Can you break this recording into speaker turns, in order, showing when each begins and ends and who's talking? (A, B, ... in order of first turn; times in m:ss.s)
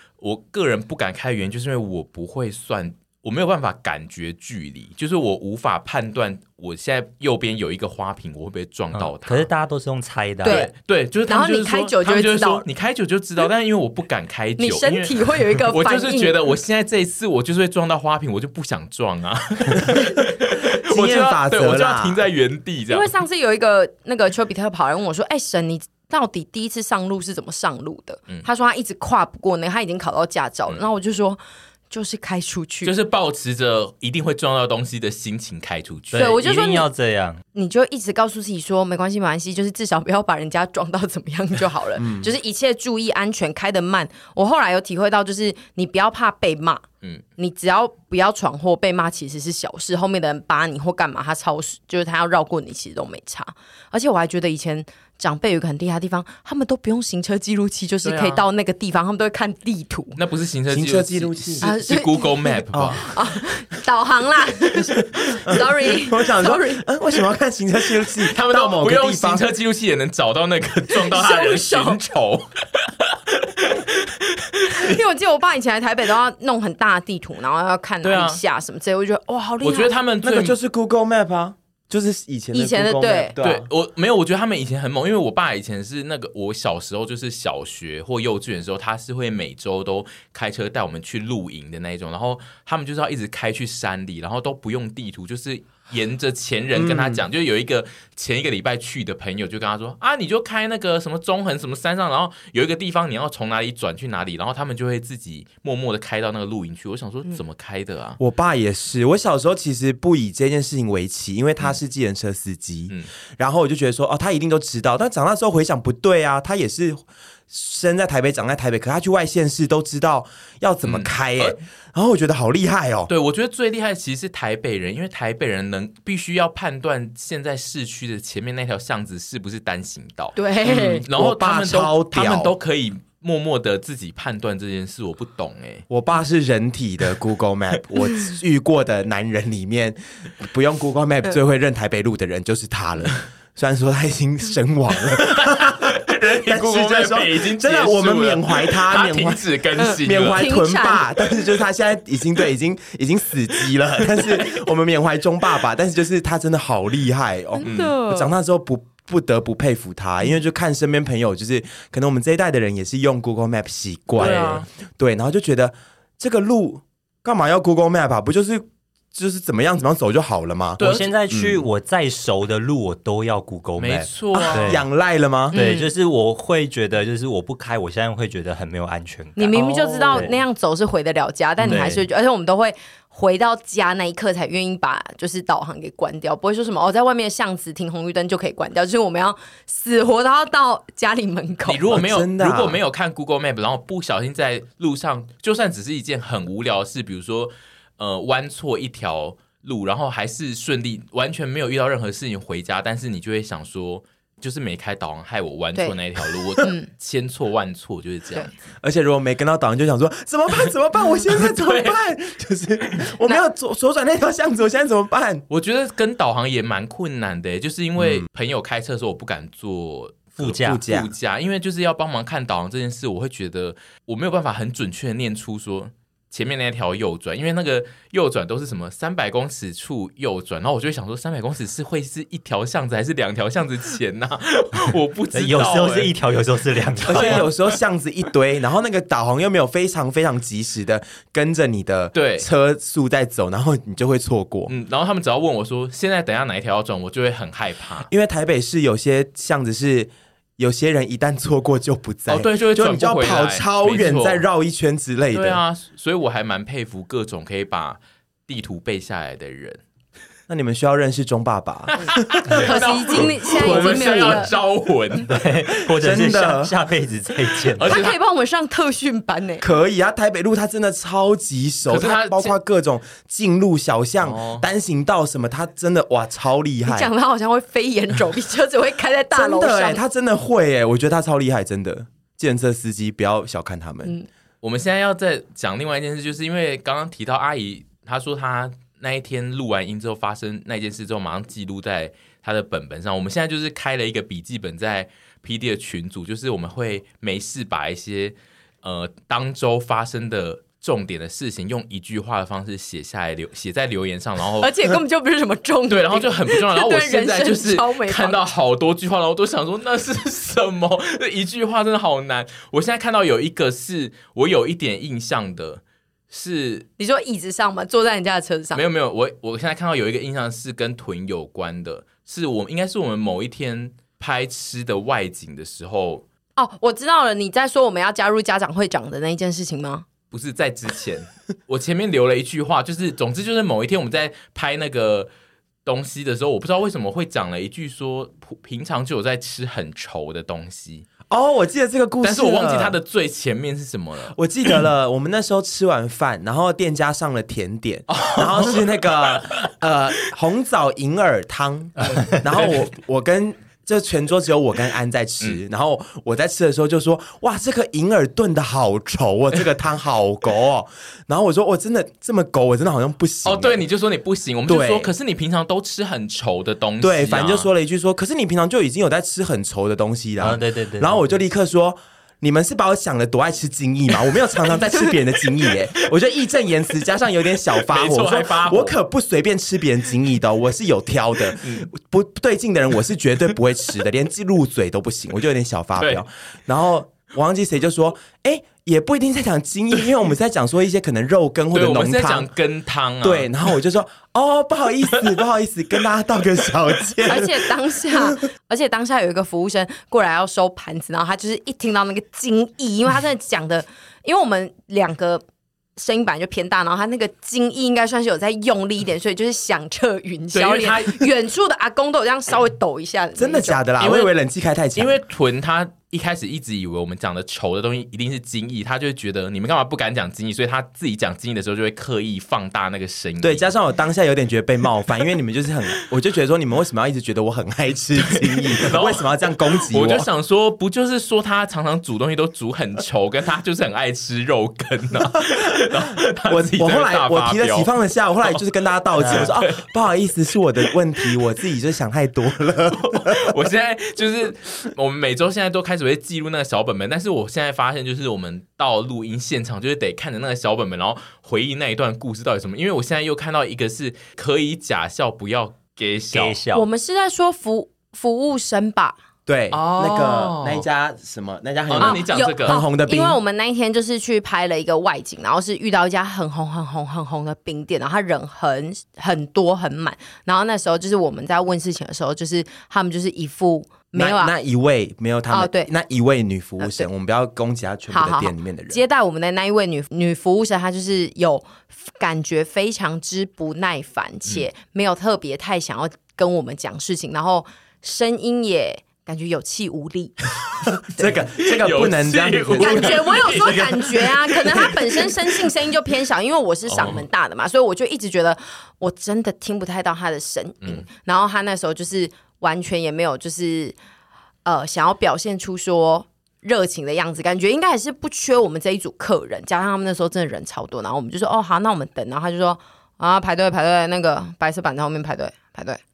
0:00.2-0:09.5 A
0:08.9-0:10.6 B
0:10.4-0:10.7 C
0:10.4-0:23.1 A
0:11.3-0:12.6 C
0:14.6-0:16.4 C
0:19.8-0:22.2 D
0:22.9-0:32.9 C
0:32.8-0:36.4 A
0:36.1-0:37.4 B
0:36.2-0:36.9 C
0:37.5-0:46.8 C
0:42.0-0:42.3 D
0:47.4-1:00.2 C
0:58.0-0:58.4 A
1:00.2-1:03.2 A
1:00.7-1:01.7 D
1:01.6-1:06.9 C
1:02.7-1:03.0 D
1:05.0-1:09.5 D
1:08.2-1:15.0 A
1:10.9-1:12.0 C
1:14.6-1:19.9 C
1:18.0-1:18.4 A
1:19.6-1:20.6 A
1:20.2-1:23.7 D
1:22.5-1:23.3 C
1:23.4-1:48.2 A
1:36.7-1:37.2 D
1:48.2-2:03.1 D
2:00.8-2:01.6 A
2:03.1-2:15.8 A
2:10.4-2:11.0 C
2:10.7-2:12.5 D
2:15.9-2:51.6 D
2:25.0-2:30.5 A
2:29.8-2:31.1 C
2:37.6-2:38.3 C
2:37.6-2:37.9 A
2:44.2-2:44.7 A
2:50.8-2:51.1 A
2:50.8-2:54.8 B
2:53.8-2:54.8 A
2:54.4-2:55.6 D
2:55.5-3:00.4 B
2:55.5-2:55.9 C
2:59.4-3:11.9 C
3:01.7-3:02.1 B
3:11.7-3:28.6 A
3:11.9-3:12.8 D
3:26.6-3:26.9 C
3:28.8-3:35.4 D
3:31.3-3:32.0 A
3:35.5-3:56.2 A
3:38.0-3:38.3 D
3:40.4-3:40.8 B
3:40.6-3:41.1 D
3:55.3-3:57.5 B
3:57.0-3:57.5 A
3:57.0-4:04.7 D
4:02.1-4:02.5 A
4:04.7-4:08.1 A
4:08.0-4:15.6 D
4:12.3-4:14.4 A
4:15.3-4:19.8 A
4:20.5-4:24.4 D
4:21.9-4:25.3 A
4:22.6-4:24.5 C
4:25.2-4:28.0 B
4:25.9-4:26.8 D
4:27.7-4:28.2 A
4:27.8-4:29.6 C
4:29.6-4:37.1 D
4:31.9-4:32.6 A
4:34.2-4:34.6 A
4:36.9-4:40.0 C
4:39.3-4:44.2 D
4:44.6-5:04.8 A
5:04.6-5:08.4 C
5:05.9-5:16.9 A
5:17.0-5:18.8 C
5:18.8-5:26.2 A
5:26.6-5:30.1 C
5:30.3-5:35.3 A
5:35.8-5:41.1 A
5:41.3-5:43.0 D
5:42.2-5:44.4 A
5:44.3-6:03.8 D
5:48.1-5:49.7 A
6:03.4-6:07.7 A
6:04.7-6:05.1 D
6:07.0-6:32.5 D
6:10.4-6:11.2 B
6:17.8-6:19.0 A
6:21.5-6:21.9 A
6:26.0-6:26.2 A
6:31.7-6:33.5 A
6:33.2-6:38.4 D
6:37.2-6:45.4 C
6:46.0-6:53.8 C
6:50.5-6:51.3 A
6:53.4-6:55.2 D
6:54.0-6:54.3 A
6:55.0-7:03.7 A
7:03.4-7:10.3 D
7:08.2-7:17.9 A
7:16.5-7:23.5 D
7:19.2-7:19.9 A
7:19.2-7:19.5 B
7:20.8-7:21.4 A
7:22.9-7:36.6 A
7:36.3-7:36.9 B
7:36.7-7:39.2 C
7:39.5-7:43.4 D
7:39.7-7:40.8 A
7:41.9-7:42.8 A
7:42.0-7:54.5 C
7:54.2-7:59.0 D
7:55.5-7:55.9 C
7:56.8-7:57.1 C
7:58.1-8:10.4 C
8:11.1-8:14.0 D
8:11.6-8:15.3 A
8:12.8-8:24.0 C
8:16.9-8:17.2 A
8:24.6-8:36.0 C